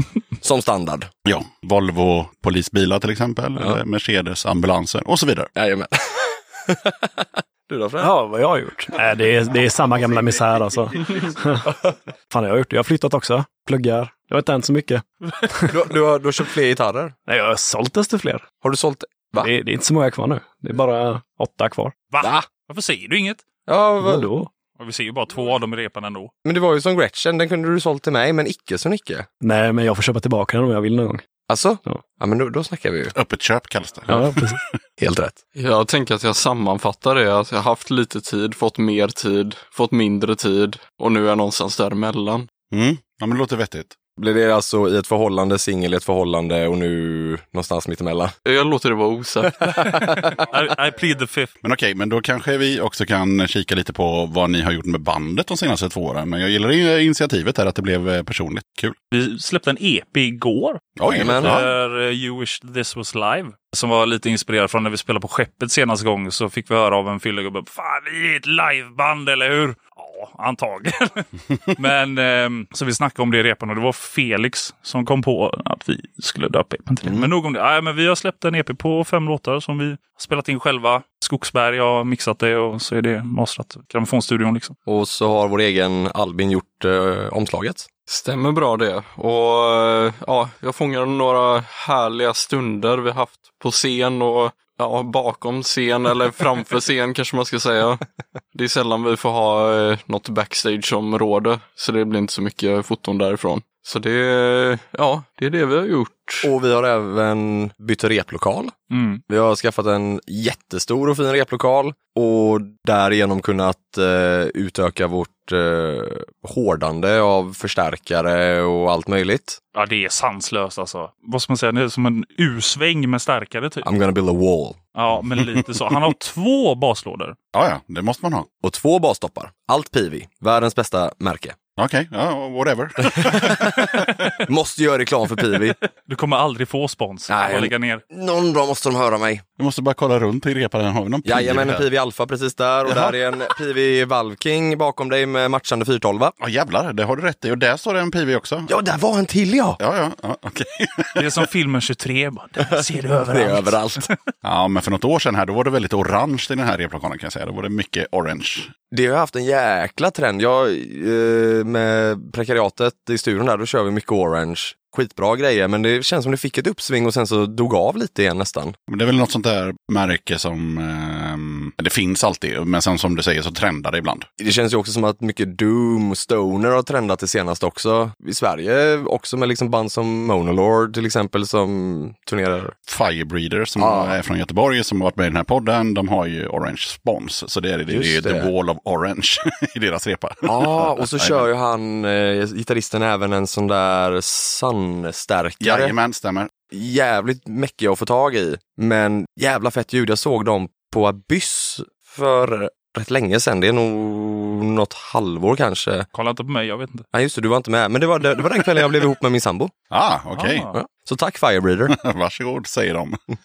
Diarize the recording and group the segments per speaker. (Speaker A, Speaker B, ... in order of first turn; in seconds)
Speaker A: 0.4-1.1, 5.5-8.1, 15.7-17.1, 18.6-19.5, 22.2-22.5, 23.7-24.3, 26.4-29.3, 31.5-33.1, 35.0-35.4, 44.2-48.4, 49.6-50.3, 61.1-61.6, 84.9-87.9, 106.4-108.8, 109.3-119.6, 123.8-124.8, 128.6-131.6, 133.2-135.8, 137.3-139.4, 141.2-146.3, 148.7-149.8, 153.3-154.1, 158.9-168.8, 174.4-182.8, 183.8-184.2, 187.9-188.5, 190.5-195.9, 196.7-206.1, 207.1-209.7, 210.7-211.9
Speaker B: 1.2-5.5, 33.1-34.7, 42.7-44.0, 51.6-59.0, 61.0-61.7, 127.5-128.5, 131.8-134.1, 139.6-141.9, 142.9-143.2, 146.4-148.7, 149.8-151.3, 154.4-158.7, 168.9-174.3, 182.9-191.4, 195.6-196.5, 209.9-210.7, 211.9-213.2
Speaker C: 8.0-15.1, 17.3-18.5, 19.4-21.9, 24.0-24.5, 29.4-31.2, 34.1-34.6
Speaker D: 22.1-23.4, 24.8-26.3, 49.9-51.5, 59.1-84.8, 108.9-109.2, 119.7-123.8, 125.0-127.4, 136.1-138.0, 151.2-154.1, 206.1-207.1, 210.3-210.8
Speaker E: 35.5-42.5, 48.5-49.7, 88.1-98.0, 98.5-106.5